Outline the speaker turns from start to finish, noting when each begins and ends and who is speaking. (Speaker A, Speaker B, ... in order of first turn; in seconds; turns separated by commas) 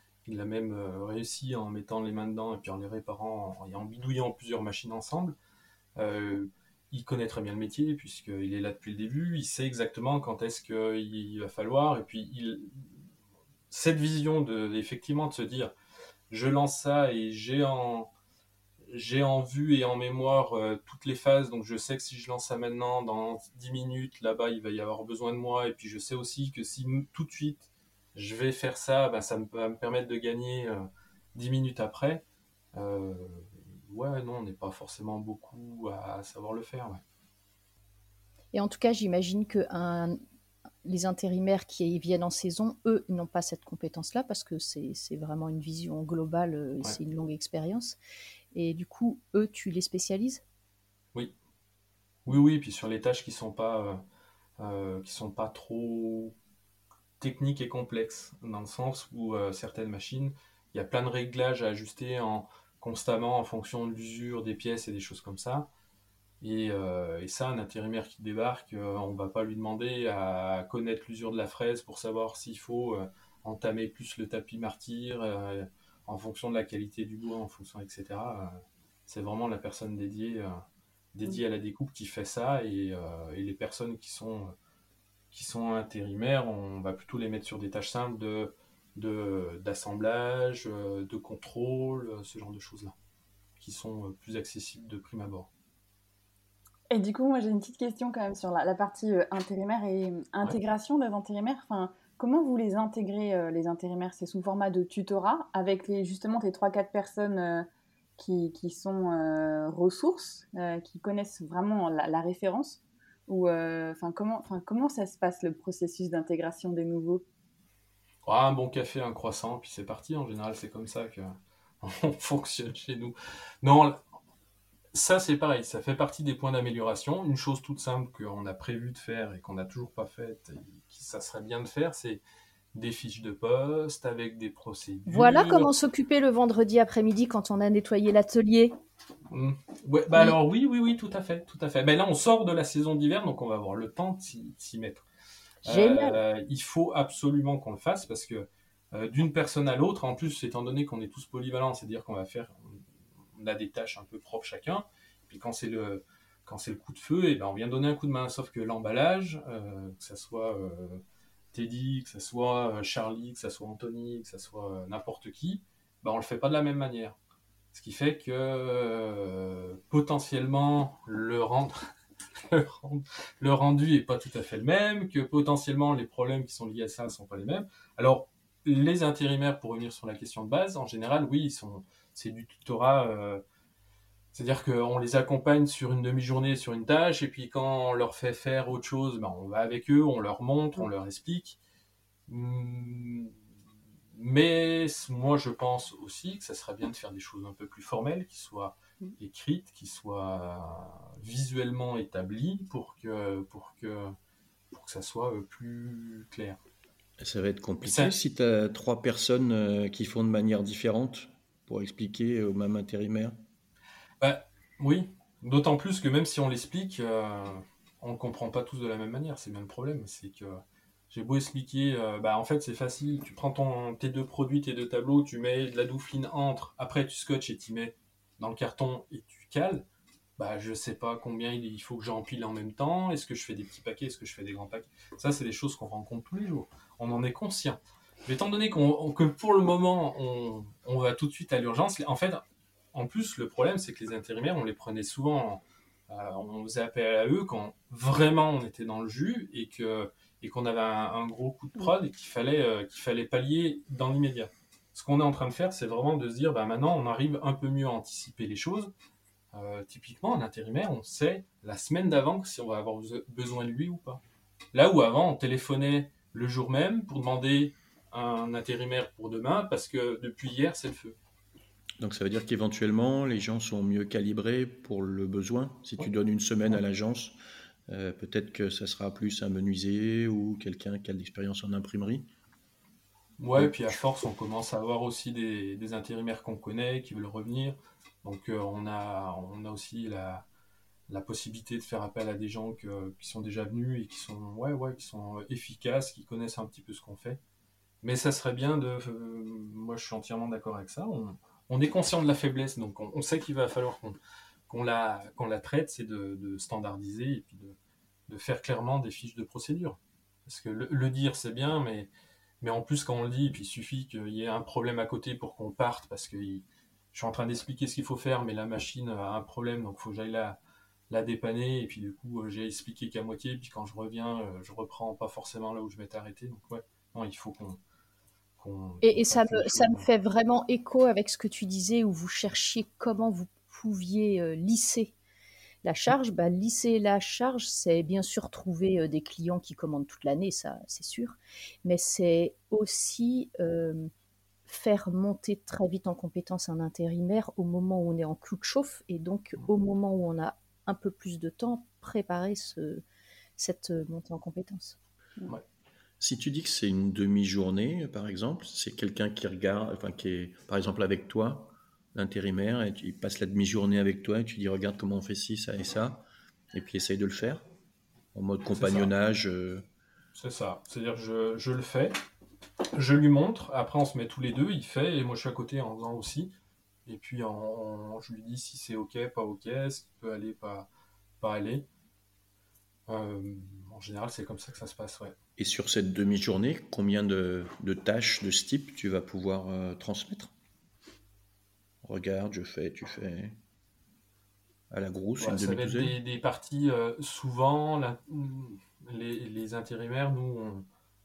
Speaker A: 0.2-5.3, Speaker A: 6.0-13.0, Speaker A: 13.7-15.7, Speaker A: 16.3-18.1, Speaker A: 18.9-32.2, Speaker A: 32.7-37.0, Speaker B: 38.5-40.2, Speaker B: 40.8-48.0, Speaker B: 48.5-50.4, Speaker A: 52.3-54.0, Speaker A: 54.6-56.3, Speaker A: 57.2-65.7, Speaker A: 66.4-80.6, Speaker A: 81.1-84.5, Speaker A: 85.3-92.9, Speaker A: 93.6-95.5, Speaker C: 96.9-117.2, Speaker A: 118.2-124.0, Speaker A: 124.9-132.2, Speaker A: 132.7-135.7, Speaker B: 135.1-138.8, Speaker A: 139.3-145.1, Speaker B: 145.6-146.2, Speaker A: 145.6-152.8, Speaker A: 153.4-161.0, Speaker A: 161.5-167.2, Speaker A: 167.7-171.8, Speaker A: 172.4-183.4, Speaker A: 184.3-191.6, Speaker A: 192.3-193.4, Speaker A: 194.1-204.2, Speaker A: 204.7-206.6, Speaker D: 207.2-213.4, Speaker A: 207.8-208.1, Speaker A: 214.2-229.8, Speaker A: 230.4-242.4, Speaker A: 242.9-258.9, Speaker A: 259.5-264.2, Speaker A: 264.7-271.2, Speaker D: 272.0-277.4, Speaker D: 277.9-282.3, Speaker A: 283.4-290.4, Speaker D: 283.6-283.9, Speaker A: 291.1-297.4, Speaker A: 298.0-304.2, Speaker A: 304.7-307.8, Speaker A: 308.3-312.1, Speaker A: 312.6-320.6, Speaker A: 321.1-327.8, Speaker A: 328.6-330.1, Speaker B: 329.0-335.1, Speaker B: 335.8-344.1, Speaker B: 344.6-353.0, Speaker B: 353.6-355.0, Speaker D: 356.2-367.6, Speaker D: 368.3-369.9, Speaker A: 368.8-369.1, Speaker A: 370.3-372.2, Speaker A: 372.9-376.5, Speaker A: 377.1-380.9, Speaker A: 381.4-381.8, Speaker A: 383.1-385.3, Speaker D: 385.6-390.5, Speaker D: 392.0-393.6, Speaker D: 394.9-396.2, Speaker A: 395.4-400.9